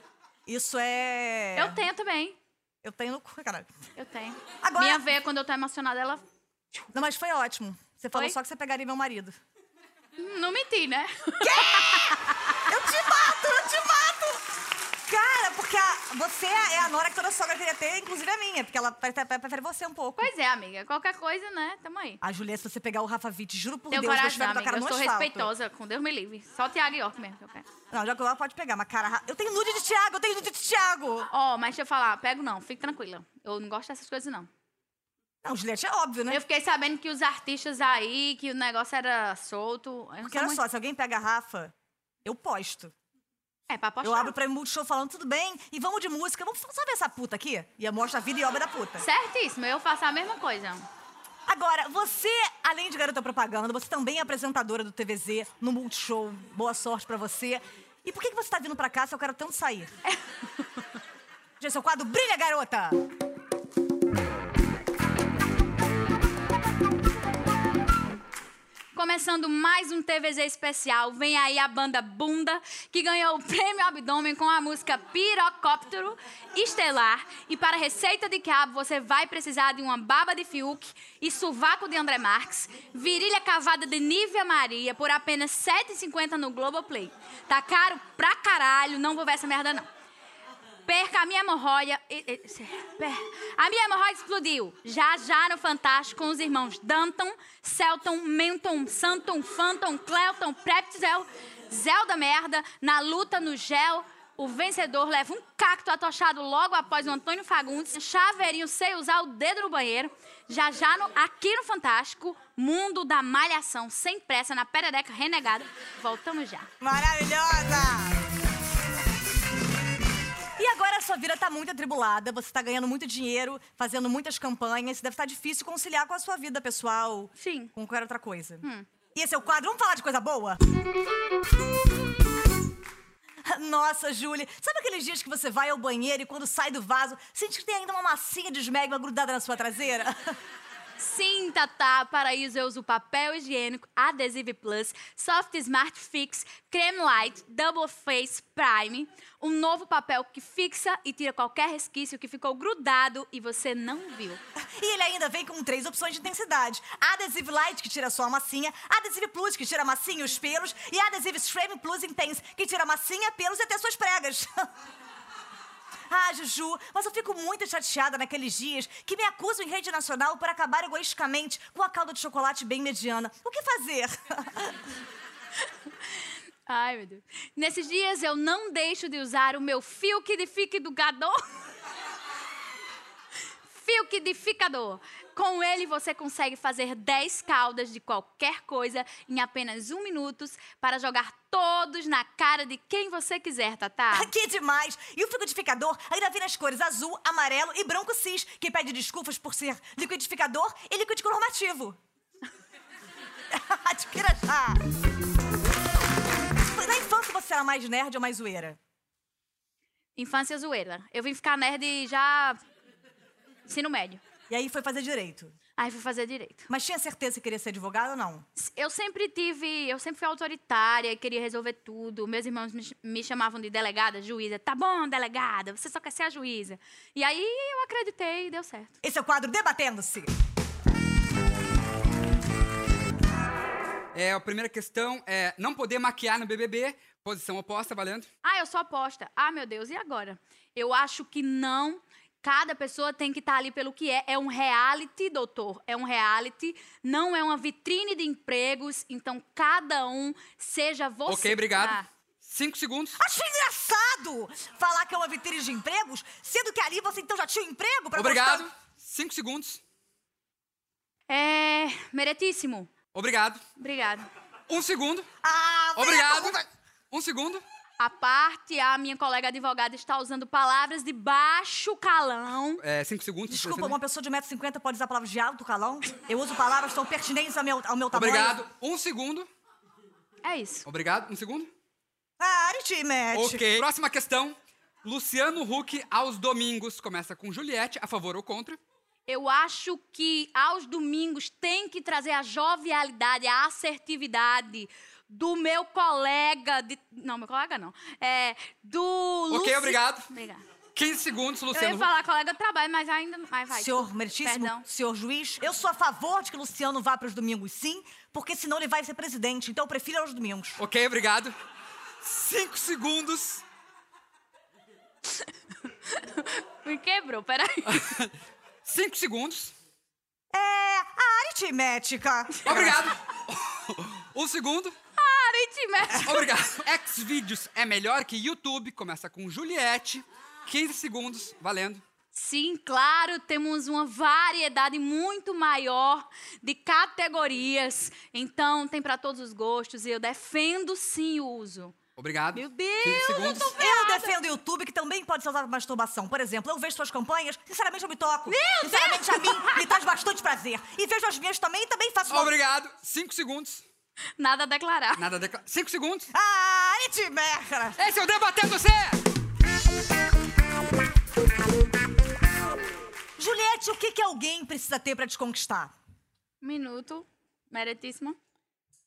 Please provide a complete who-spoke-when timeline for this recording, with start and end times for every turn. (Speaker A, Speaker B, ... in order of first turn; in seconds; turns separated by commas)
Speaker A: 0.5-1.8, Speaker B: 1.6-2.4, Speaker A: 2.8-3.7, Speaker B: 4.0-6.2, Speaker A: 4.6-5.0, Speaker A: 6.9-9.4, Speaker B: 10.2-12.6, Speaker A: 11.4-14.4, Speaker A: 15.0-20.3, Speaker B: 20.2-22.2, Speaker A: 22.2-25.5, Speaker B: 23.9-27.6, Speaker A: 27.9-31.3, Speaker B: 31.3-34.5, Speaker A: 35.4-36.4, Speaker B: 36.3-40.6, Speaker A: 40.2-41.7, Speaker A: 42.2-42.9, Speaker B: 43.7-44.3, Speaker A: 44.0-49.0, Speaker B: 49.0-50.9, Speaker A: 51.5-59.9, Speaker A: 61.6-63.0, Speaker B: 68.9-89.9, Speaker B: 90.8-116.7, Speaker A: 116.8-118.2, Speaker A: 120.6-130.6, Speaker B: 127.4-127.7, Speaker B: 128.6-128.9, Speaker A: 133.4-140.4, Speaker B: 141.0-154.4, Speaker A: 154.8-164.7, Speaker A: 166.1-174.8, Speaker B: 176.7-181.4, Speaker B: 183.7-194.3, Speaker A: 194.1-202.0, Speaker A: 203.5-204.8, Speaker A: 206.7-208.8, Speaker B: 210.2-212.6, Speaker B: 213.7-214.2, Speaker A: 214.5-215.5, Speaker B: 215.8-216.7, Speaker A: 216.7-218.4, Speaker B: 218.6-228.9, Speaker A: 229.0-230.3, Speaker C: 234.1-238.3, Speaker B: 238.4-252.1, Speaker C: 251.3-253.2, Speaker A: 253.2-258.7, Speaker C: 258.1-259.8, Speaker B: 261.3-262.9, Speaker C: 263.1-263.6, Speaker B: 263.8-264.3, Speaker C: 264.7-265.3, Speaker A: 265.4-266.6, Speaker C: 265.9-266.6, Speaker C: 267.1-267.6, Speaker B: 268.0-272.8, Speaker C: 272.8-274.0, Speaker A: 273.5-278.6, Speaker C: 278.1-279.5, Speaker B: 280.4-280.9, Speaker C: 280.9-281.7, Speaker A: 282.4-283.8, Speaker C: 283.3-288.8, Speaker B: 289.3-300.6, Speaker C: 299.5-300.3, Speaker C: 300.9-302.1, Speaker B: 301.7-304.8, Speaker A: 303.7-310.8, Speaker C: 310.8-311.5, Speaker C: 312.2-313.6, Speaker B: 316.1-318.1, Speaker C: 317.9-318.3, Speaker C: 318.8-319.7, Speaker A: 320.5-323.0, Speaker C: 322.6-324.9, Speaker B: 325.2-326.5, Speaker C: 326.2-332.0, Speaker B: 332.3-341.9, Speaker C: 342.2-343.8, Speaker B: 342.5-344.3, Speaker A: 343.7-352.5, Speaker B: 348.5-349.8, Speaker C: 352.3-353.8, Speaker B: 354.4-355.2, Speaker C: 355.2-356.3, Speaker A: 356.3-358.0, Speaker C: 358.0-359.2, Speaker A: 363.4-365.9, Speaker B: 366.6-368.4